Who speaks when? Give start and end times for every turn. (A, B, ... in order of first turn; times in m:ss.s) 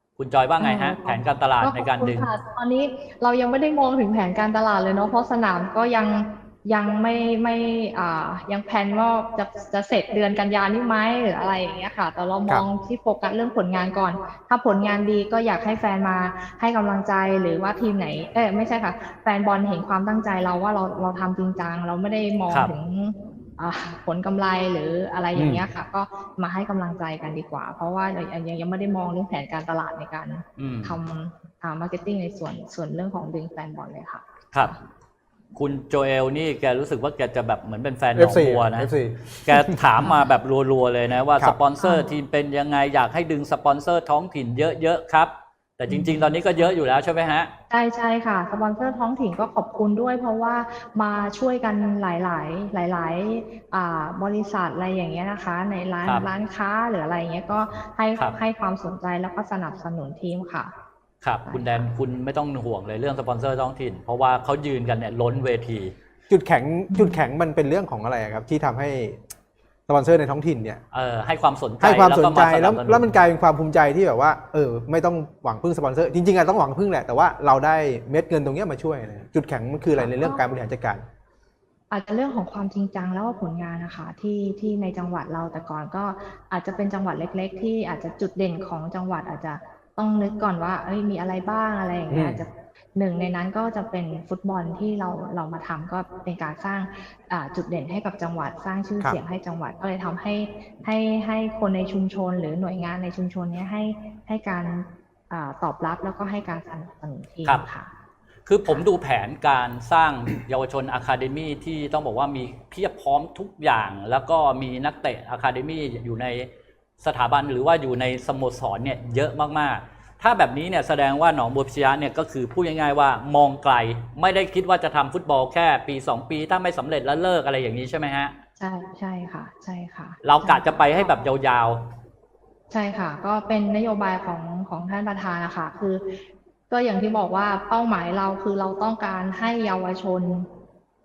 0:00.2-0:02.3 A
0:00.6-0:34.8 B
0:25.3-0:25.6 C
0:30.6-0:31.0 A
0:35.6-0:38.9 A
0:38.2-0:39.8 C
0:39.4-0:47.5 A
0:41.8-0:42.0 B
0:45.9-0:46.7 B
0:47.7-1:00.7 B
1:01.2-1:05.9 A
1:01.4-1:01.8 B
1:06.3-1:09.2 C
1:06.9-1:07.2 B
1:09.9-1:10.8 C
1:10.9-1:13.2 A
1:11.8-1:21.0 C
1:19.9-1:20.4 B
1:21.9-1:47.9 B
1:32.1-1:32.4 C
1:48.4-1:56.5 A
1:57.0-2:08.3 A
2:08.6-2:10.8 B
2:10.2-2:11.8 A
2:12.7-2:20.5 B